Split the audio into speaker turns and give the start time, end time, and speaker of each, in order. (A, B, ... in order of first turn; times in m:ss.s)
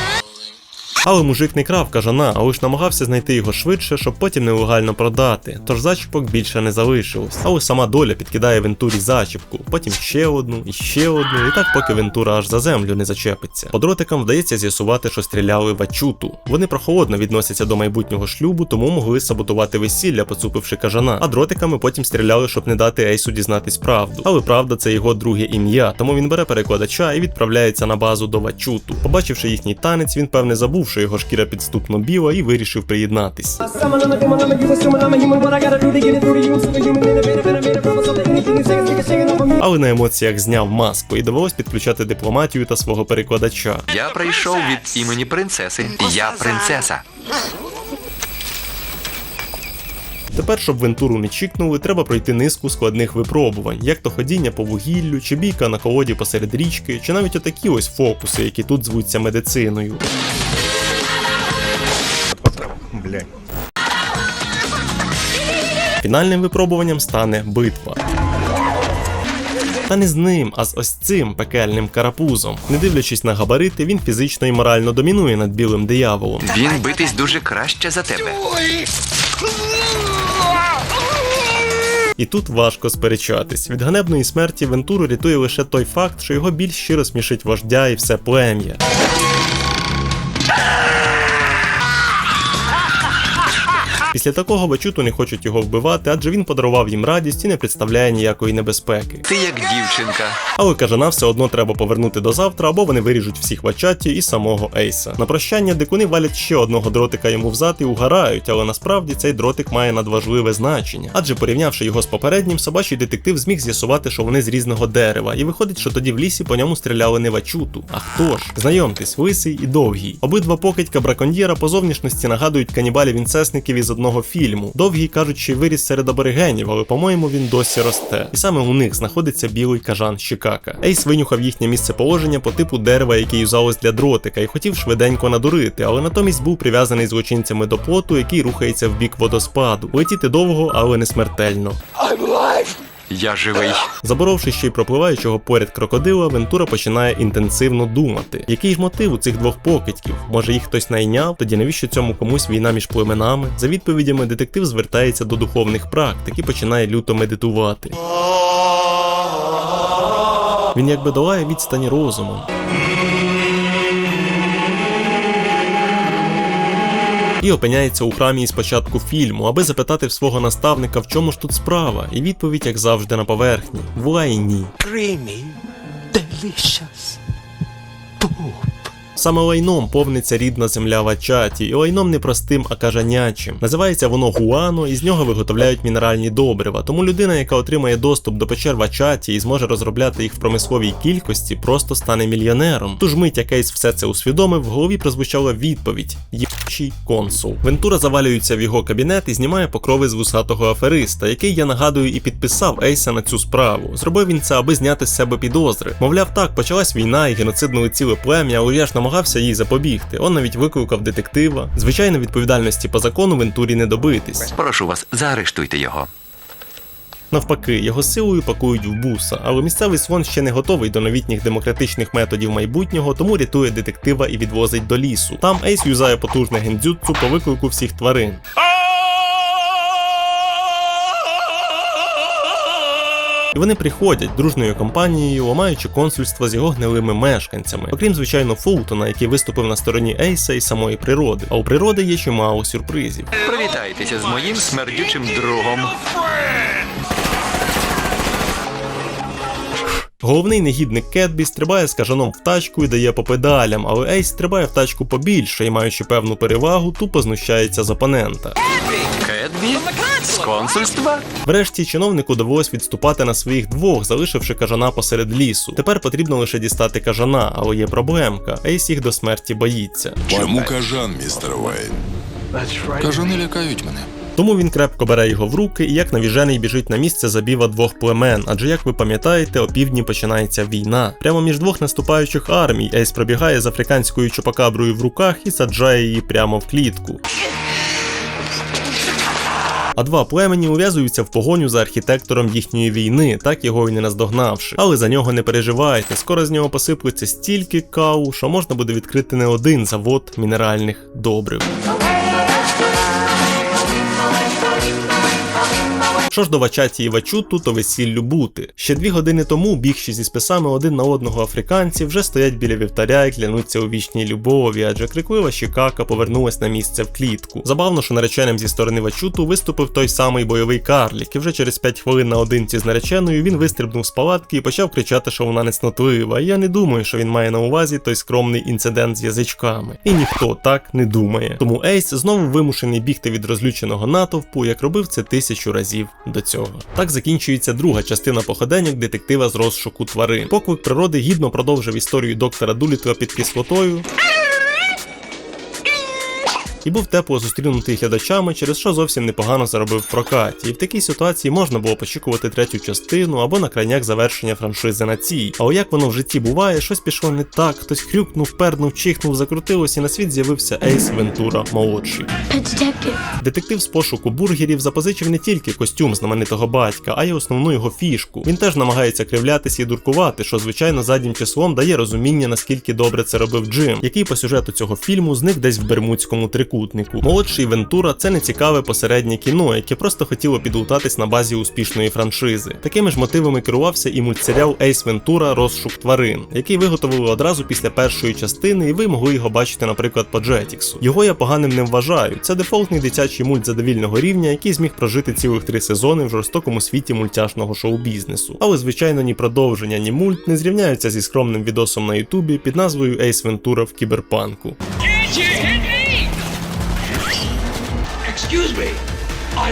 0:01.0-0:33.6 A
0:39.6-0:43.8 A
0:43.9-0:47.0 B
0:50.3-1:00.0 A
1:06.0-1:08.0 A
1:09.9-1:16.5 A
1:16.4-1:18.4 B
1:22.2-1:28.8 A
1:34.1-1:39.2 A
1:39.3-1:40.4 B
1:40.6-2:21.8 A
2:23.1-2:23.9 B
2:24.0-2:38.0 A
2:40.7-2:42.5 A
2:47.4-2:54.7 A
2:59.2-3:34.4 A
3:34.4-3:36.1 B
3:37.3-3:48.4 A
3:53.5-4:03.3 A
4:03.4-4:06.0 B
4:10.2-4:18.6 A
4:19.2-4:21.2 B
4:21.4-4:30.2 A
4:30.3-4:31.9 C
4:30.3-4:31.0 B
4:33.0-4:34.1 C
4:34.4-4:47.2 A
4:50.0-5:01.7 A
5:06.3-5:44.0 A
5:46.8-6:02.3 A
6:03.4-6:44.8 A